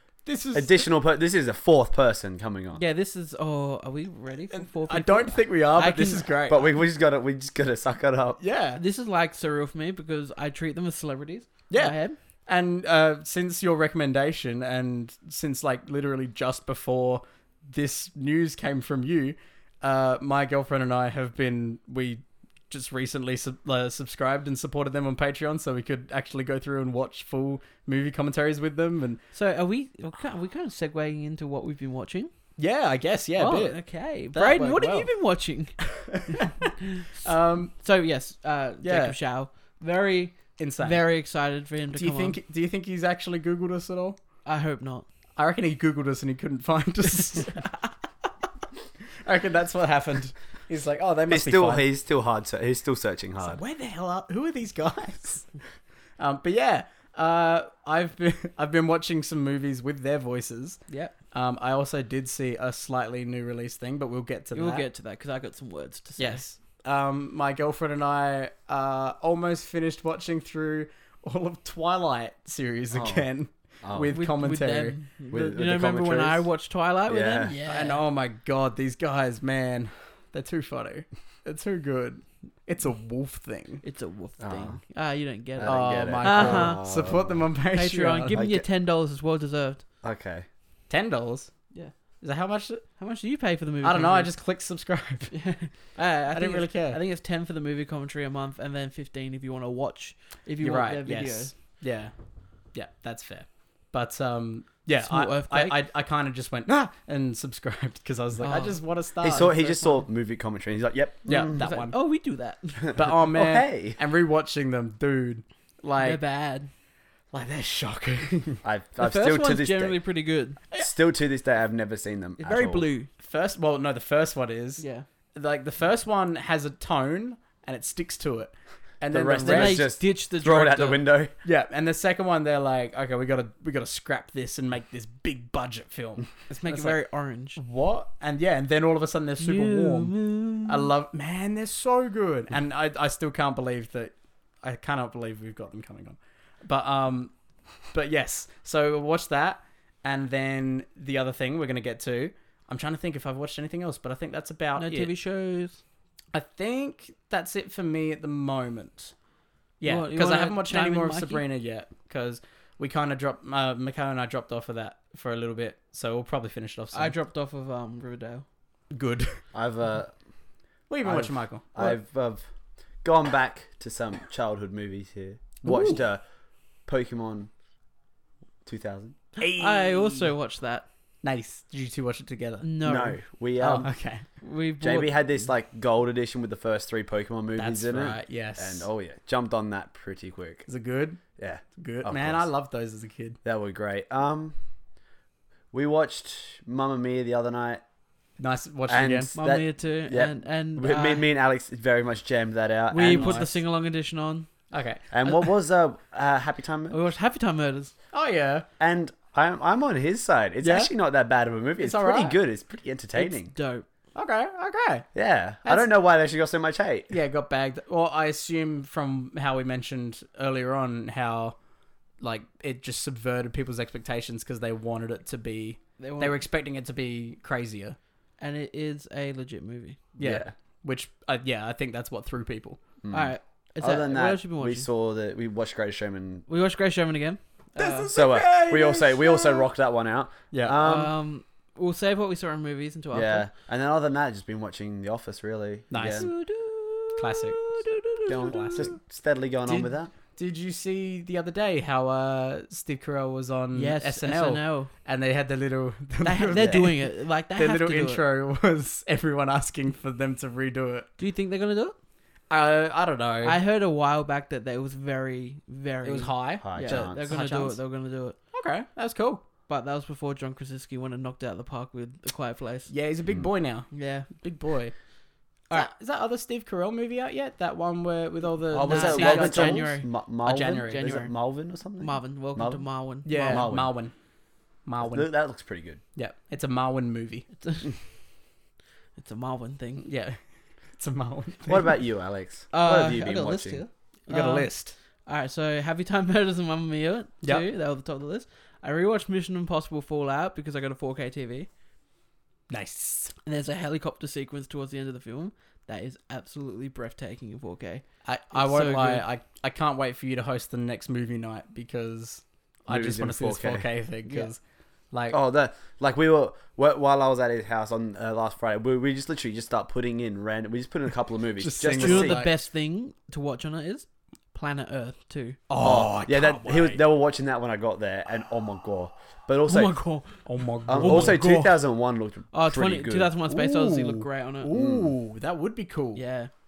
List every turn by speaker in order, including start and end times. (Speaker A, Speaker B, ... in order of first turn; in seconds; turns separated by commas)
Speaker A: 0.3-0.8, Speaker B: 0.5-2.8, Speaker C: 2.8-6.3, Speaker A: 4.5-6.7, Speaker B: 6.5-8.4, Speaker A: 8.4-8.8, Speaker C: 8.8-12.2, Speaker A: 11.7-29.2, Speaker C: 29.3-32.3, Speaker A: 32.6-35.1, Speaker C: 33.4-35.8, Speaker A: 35.8-37.7, Speaker C: 36.3-42.4, Speaker A: 38.8-39.2, Speaker A: 40.6-41.0, Speaker A: 41.9-44.2, Speaker C: 44.5-45.1, Speaker A: 45.4-47.7, Speaker A: 49.2-51.9, Speaker B: 51.3-53.6, Speaker A: 53.4-55.5, Speaker A: 56.2-64.8, Speaker C: 60.9-61.1, Speaker C: 64.5-66.4, Speaker A: 66.2-75.0, Speaker B: 72.9-73.3, Speaker B: 73.8-74.1, Speaker C: 74.1-78.0, Speaker B: 75.3-76.5, Speaker B: 77.1-77.6, Speaker A: 77.5-83.8, Speaker C: 83.8-86.9, Speaker B: 84.4-84.8, Speaker B: 85.6-87.4, Speaker A: 85.7-88.4, Speaker C: 87.7-89.8, Speaker B: 88.3-88.7, Speaker B: 90.0-90.5, Speaker A: 90.9-91.5, Speaker A: 92.2-92.8, Speaker C: 93.0-94.3, Speaker A: 93.8-95.4, Speaker C: 95.3-101.5, Speaker A: 96.3-97.0, Speaker A: 100.6-102.1, Speaker A: 102.7-109.7, Speaker C: 105.0-105.8, Speaker C: 108.4-108.8, Speaker B: 109.2-111.6, Speaker C: 109.5-110.0, Speaker A: 111.3-112.0, Speaker C: 111.3-112.9, Speaker B: 112.8-114.0, Speaker A: 113.0-116.2, Speaker C: 116.0-116.7, Speaker A: 117.3-118.6, Speaker B: 118.6-120.0, Speaker C: 119.0-120.6, Speaker B: 120.8-122.9, Speaker C: 122.4-123.1, Speaker A: 123.2-129.8, Speaker C: 124.8-125.1, Speaker B: 129.1-131.3, Speaker C: 129.4-131.0, Speaker A: 131.4-137.0, Speaker C: 136.5-137.6, Speaker A: 137.6-147.3, Speaker C: 139.4-140.9, Speaker A: 147.9-155.1, Speaker C: 154.8-155.8, Speaker A: 156.3-159.1, Speaker A: 159.8-167.2, Speaker C: 159.8-161.4, Speaker C: 166.9-168.4, Speaker A: 168.9-169.4, Speaker B: 169.5-170.2, Speaker A: 170.9-171.9, Speaker B: 171.0-172.4, Speaker B: 173.0-176.2, Speaker A: 175.6-176.0, Speaker B: 176.9-177.5, Speaker B: 178.7-179.2, Speaker C: 179.4-180.9, Speaker A: 179.4-180.3, Speaker A: 181.2-182.7, Speaker C: 182.6-183.2, Speaker B: 182.8-183.9, Speaker A: 183.6-184.2, Speaker C: 184.4-185.5, Speaker B: 184.8-190.7, Speaker A: 187.6-188.9, Speaker A: 190.7-193.4, Speaker B: 191.4-192.5, Speaker B: 193.4-194.6, Speaker B: 195.7-197.8, Speaker A: 198.4-199.3, Speaker B: 198.9-203.5, Speaker C: 199.3-201.3, Speaker C: 202.9-204.5, Speaker A: 203.1-203.5, Speaker A: 204.7-205.0, Speaker B: 205.1-207.0, Speaker C: 206.9-207.9, Speaker A: 208.1-208.7, Speaker B: 208.8-213.5, Speaker A: 210.6-210.9, Speaker A: 211.8-212.4, Speaker C: 213.2-213.9, Speaker A: 214.2-215.1, Speaker B: 215.2-217.1, Speaker A: 215.7-215.9, Speaker A: 217.1-221.6, Speaker A: 222.2-228.0, Speaker C: 226.0-226.4, Speaker C: 228.4-230.0, Speaker B: 230.2-230.5, Speaker A: 230.2-232.8, Speaker B: 233.0-236.4, Speaker C: 233.1-234.9, Speaker C: 236.5-238.1, Speaker A: 237.8-239.7, Speaker B: 238.1-241.1, Speaker A: 240.5-240.8, Speaker C: 240.8-243.5, Speaker B: 243.1-246.3, Speaker A: 245.9-246.4, Speaker C: 246.0-249.0, Speaker A: 247.2-247.8, Speaker B: 248.3-250.1, Speaker A: 248.4-248.9, Speaker A: 250.4-261.1, Speaker C: 253.7-254.9, Speaker C: 256.2-258.2, Speaker B: 256.5-256.8, Speaker C: 261.2-262.0, Speaker A: 262.5-263.6, Speaker C: 263.4-268.4, Speaker A: 266.0-267.8, Speaker B: 266.6-267.3, Speaker A: 268.5-269.4, Speaker C: 269.7-272.9, Speaker A: 272.9-274.9, Speaker C: 273.9-274.3, Speaker A: 275.7-279.9, Speaker B: 278.7-282.8, Speaker C: 278.8-280.1, Speaker A: 280.4-281.1, Speaker C: 280.9-281.3, Speaker C: 282.0-283.7, Speaker A: 283.2-284.1, Speaker B: 283.4-283.9, Speaker A: 284.9-285.3, Speaker B: 285.0-286.0, Speaker A: 286.2-287.5, Speaker C: 287.6-288.0, Speaker C: 289.2-290.1, Speaker A: 290.0-290.4, Speaker A: 291.0-291.9, Speaker B: 291.7-293.8, Speaker C: 292.7-301.7, Speaker A: 294.3-294.9, Speaker A: 302.7-303.3, Speaker C: 303.5-309.2, Speaker A: 308.2-314.6, Speaker B: 312.9-313.9, Speaker C: 314.2-314.5, Speaker A: 315.1-315.4, Speaker B: 315.3-322.4, Speaker A: 321.6-322.5, Speaker C: 321.9-325.6, Speaker A: 325.7-327.0, Speaker B: 325.8-330.0, Speaker C: 329.7-331.8, Speaker A: 330.5-331.5, Speaker B: 330.9-333.3, Speaker C: 332.5-334.7, Speaker A: 333.5-336.2, Speaker B: 334.7-335.1, Speaker C: 336.2-336.5